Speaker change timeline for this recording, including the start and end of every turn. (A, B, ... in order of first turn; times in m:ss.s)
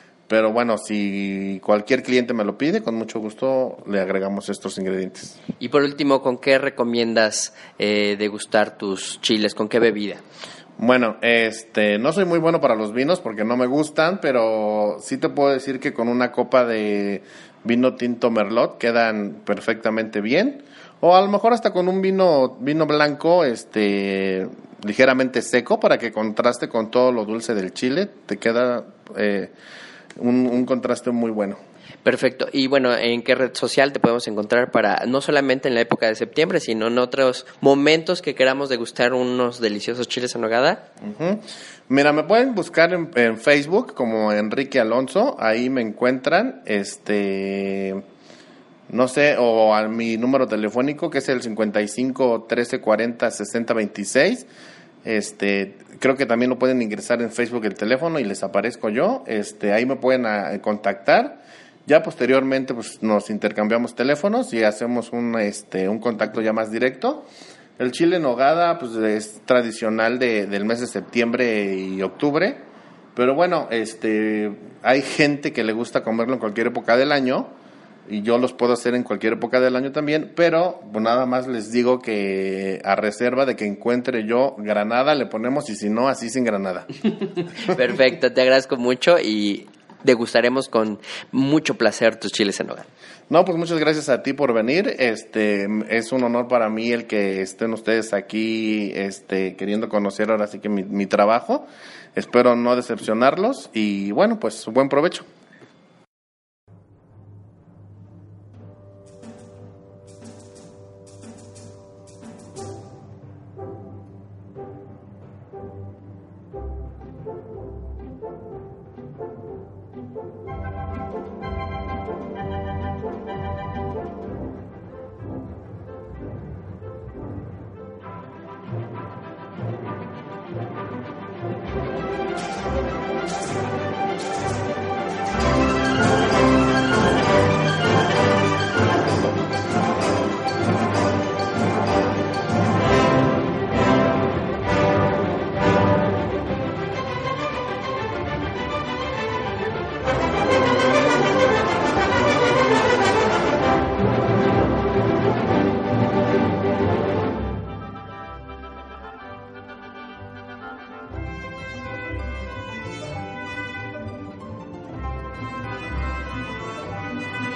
0:00.3-0:05.4 A
0:05.6-0:10.2 B
0:10.8-0:29.5 A
0:30.2-0:31.6 A
0:32.0-0:40.8 B
0:41.0-0:48.0 A
0:48.9-0:54.5 A
0:55.0-1:07.2 A
1:07.8-1:17.5 A
1:18.1-1:26.9 A
1:27.6-1:32.9 B
1:33.3-1:45.3 A